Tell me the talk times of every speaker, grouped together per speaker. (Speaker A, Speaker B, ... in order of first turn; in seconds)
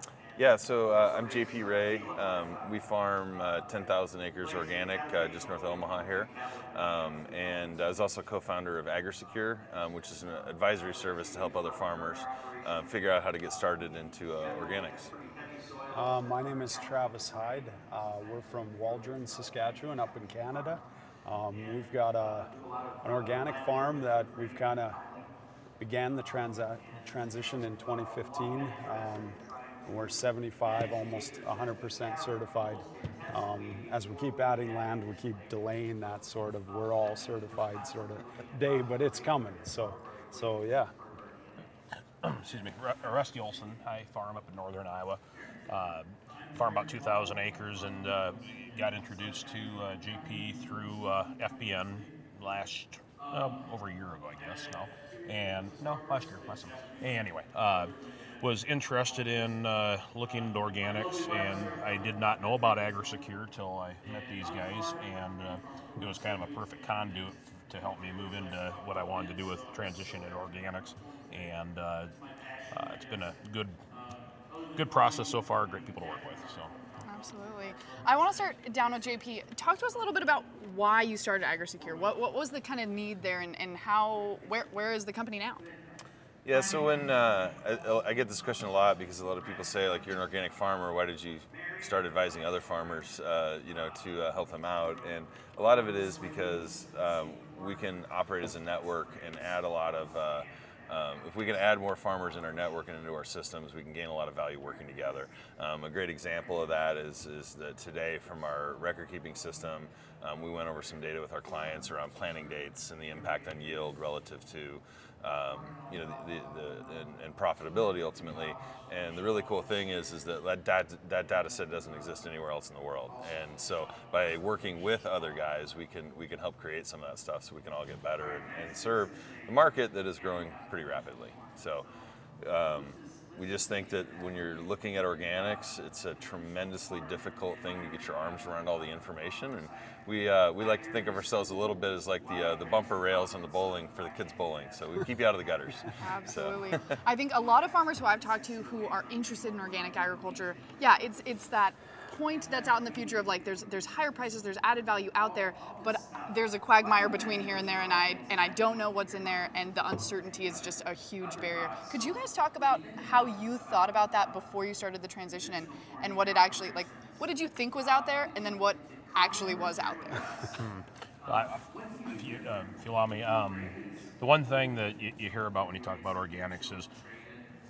Speaker A: 0.3-15.1, 86.4-131.9, 132.4-146.9
Speaker B: 15.9-25.0, 25.8-40.9
Speaker C: 42.2-72.1, 72.7-73.8, 74.7-76.7, 170.6-176.9
Speaker D: 77.0-85.7, 146.0-170.3